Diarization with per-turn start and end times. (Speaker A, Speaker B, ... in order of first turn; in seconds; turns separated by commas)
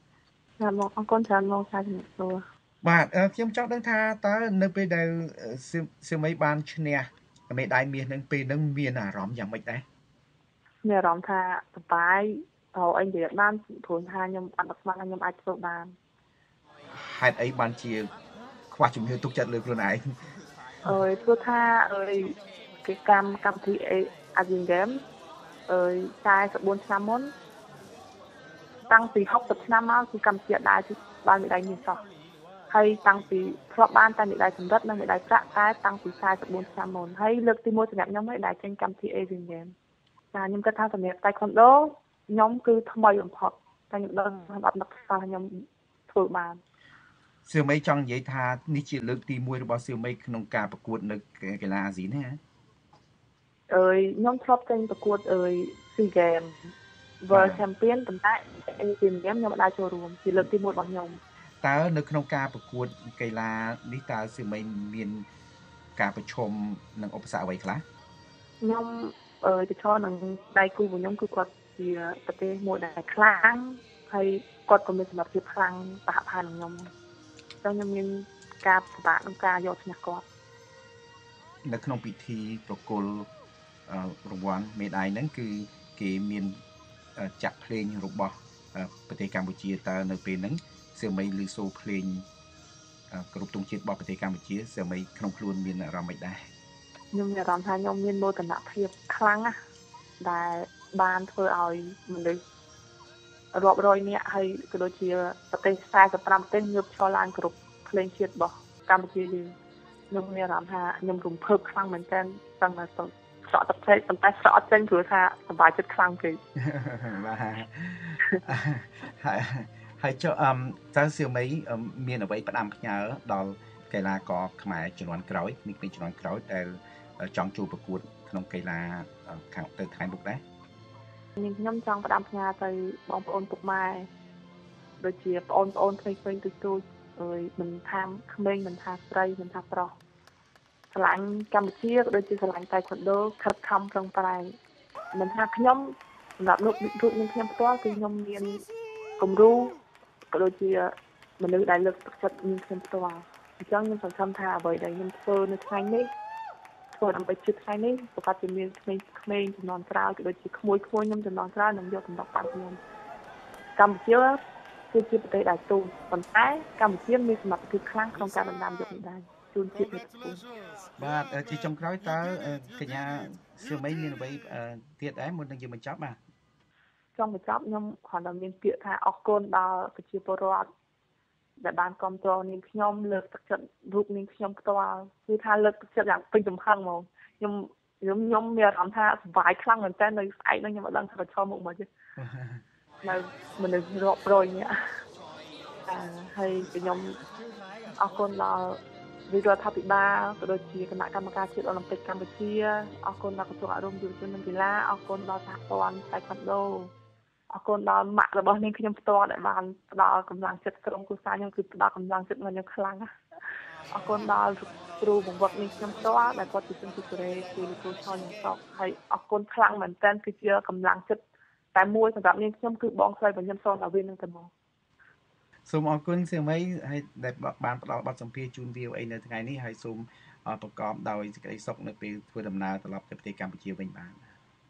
Speaker A: 0.6-2.4, Speaker B: 2.8-9.8, Speaker A: 10.8-15.9, Speaker B: 16.9-18.1, Speaker B: 18.7-20.0, Speaker A: 20.8-25.0, Speaker A: 25.7-27.3, Speaker A: 28.9-32.0, Speaker A: 32.7-39.7, Speaker A: 40.3-46.6, Speaker B: 47.5-52.4, Speaker A: 53.7-61.2, Speaker B: 57.3-57.6, Speaker B: 61.6-65.2, Speaker B: 66.0-67.8, Speaker A: 68.6-76.9, Speaker A: 77.6-80.2, Speaker B: 81.6-83.3, Speaker B: 83.9-86.6, Speaker B: 87.2-92.2, Speaker B: 93.1-96.4, Speaker A: 97.1-99.5, Speaker A: 100.2-102.4, Speaker A: 103.5-109.5, Speaker A: 110.1-116.4, Speaker B: 116.5-130.4, Speaker A: 131.4-134.1, Speaker A: 135.0-139.9, Speaker A: 140.9-144.6, Speaker A: 145.1-148.6, Speaker A: 149.2-149.8, Speaker A: 150.3-156.1, Speaker A: 156.9-162.8, Speaker A: 163.8-164.4, Speaker A: 164.9-170.4, Speaker B: 171.0-176.2, Speaker A: 177.1-180.7, Speaker A: 181.6-191.9, Speaker B: 192.2-192.6, Speaker A: 193.0-194.8, Speaker A: 195.9-197.2, Speaker A: 198.0-206.9, Speaker A: 207.5-213.1, Speaker A: 213.9-221.2, Speaker A: 221.7-224.5, Speaker B: 225.7-234.3